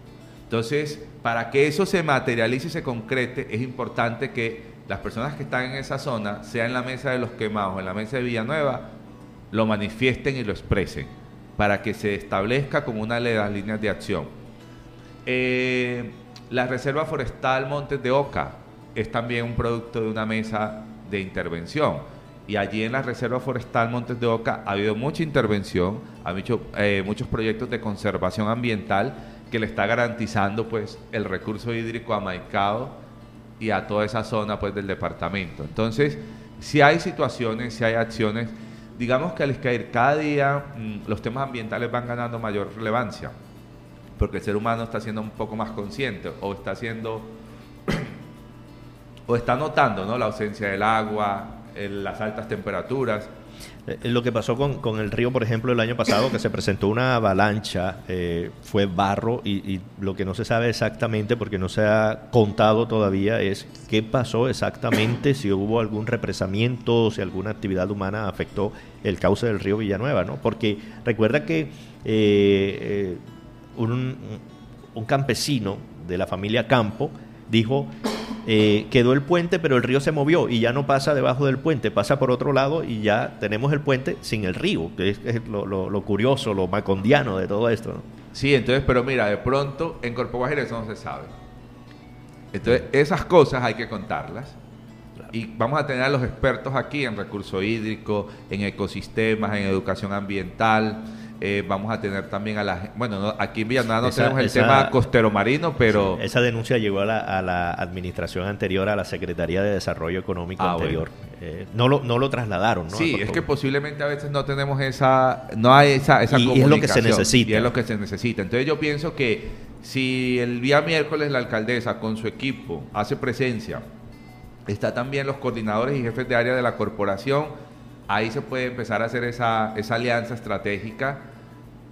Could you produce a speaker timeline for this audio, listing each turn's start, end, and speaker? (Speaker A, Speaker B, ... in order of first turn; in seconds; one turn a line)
Speaker A: 0.5-8.9
Speaker A: 9.5-14.3
Speaker A: 15.2-32.9
Speaker A: 33.6-43.3
Speaker A: 44.2-47.3
Speaker A: 49.3-53.3
Speaker B: 53.9-73.2
Speaker B: 73.8-74.4
Speaker B: 74.9-88.0
Speaker A: 88.3-91.3
Speaker A: 92.5-94.5
Speaker A: 95.3-106.2
Speaker B: 104.0-104.9
Speaker B: 105.8-113.4
Speaker A: 110.6-111.0
Speaker A: 112.9-123.8
Speaker B: 116.3-117.7
Speaker A: 124.7-127.5
Speaker A: 128.1-131.2